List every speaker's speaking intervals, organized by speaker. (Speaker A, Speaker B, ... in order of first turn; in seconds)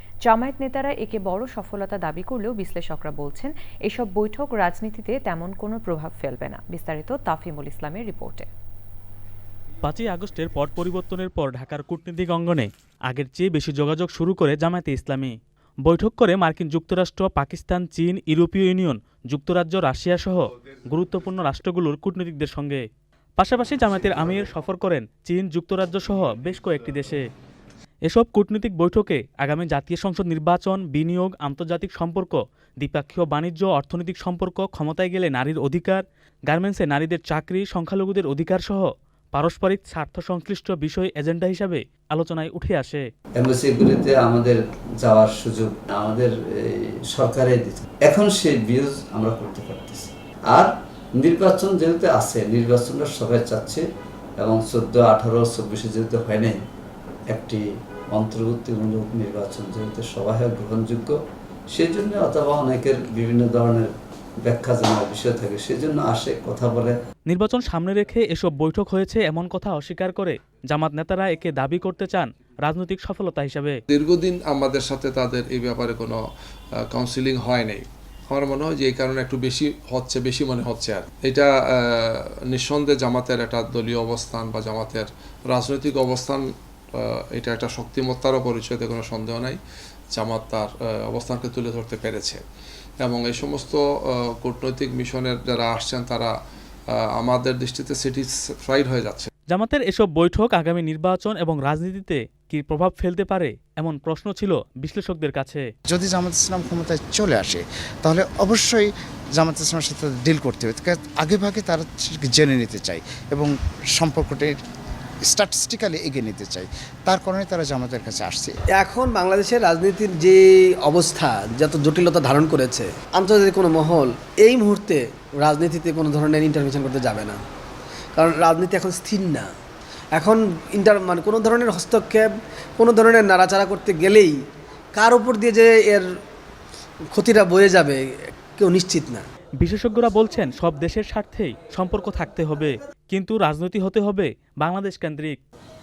Speaker A: 0.2-8.5
Speaker B: 9.8-15.3, 15.8-22.8, 23.4-27.2, 28.1-43.0, 67.3-73.8, 99.5-105.6, 139.6-145.4
Speaker C: 43.4-53.9, 54.4-56.6, 57.3-61.2, 61.7-63.9, 64.4-67.0
Speaker D: 73.9-76.2, 76.9-86.5, 87.0-89.6, 90.1-92.4, 93.0-93.8, 94.4-96.3, 96.9-99.3
Speaker E: 105.9-114.5, 115.3-118.5
Speaker F: 118.8-127.4, 128.2-129.5, 130.2-134.3, 135.0-136.1, 137.1-138.0, 138.6-139.2